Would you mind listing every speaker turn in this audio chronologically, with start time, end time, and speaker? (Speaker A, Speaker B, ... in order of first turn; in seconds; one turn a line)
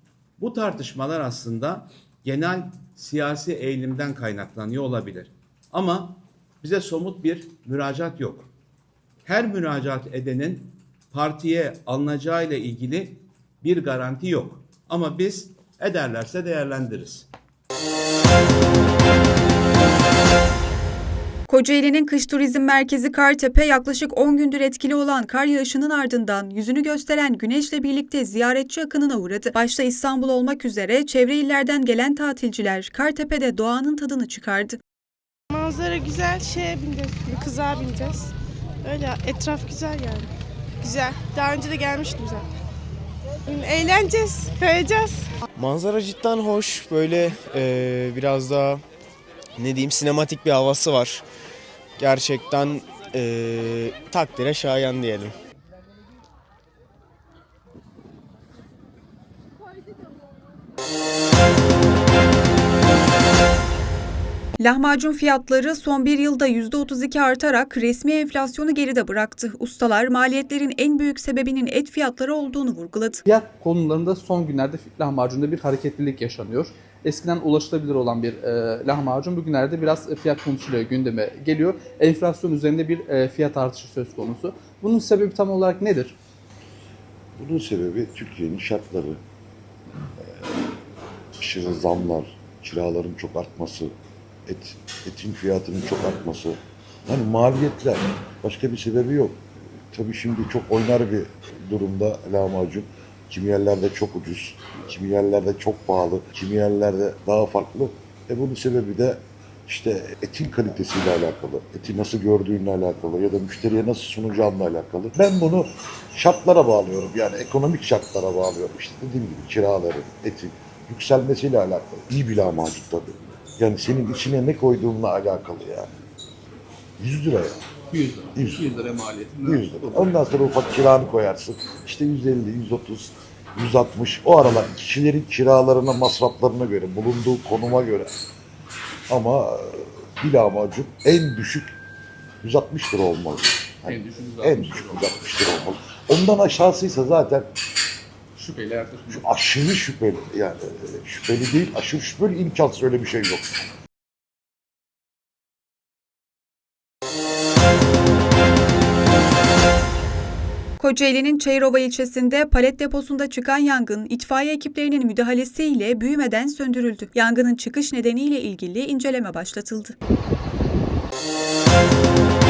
Speaker A: 0.4-8.5
Speaker A: 9.2-17.3
Speaker B: 21.5-34.8
Speaker C: 35.5-38.3
Speaker C: 38.8-42.5
Speaker C: 43.5-45.3
Speaker D: 45.6-48.8
Speaker D: 49.6-51.2
Speaker D: 52.0-55.3
Speaker B: 64.6-73.2
Speaker E: 73.3-86.2
Speaker F: 87.4-89.2
Speaker F: 90.2-90.5
Speaker F: 91.4-93.9
Speaker F: 94.5-125.9
Speaker F: 127.0-127.6
Speaker E: 127.9-130.1
Speaker F: 128.3-128.7
Speaker F: 129.4-138.1
Speaker F: 139.1-141.8
Speaker F: 142.4-147.5
Speaker E: 143.9-145.1
Speaker E: 148.4-149.2
Speaker F: 149.1-153.6
Speaker B: 160.8-170.0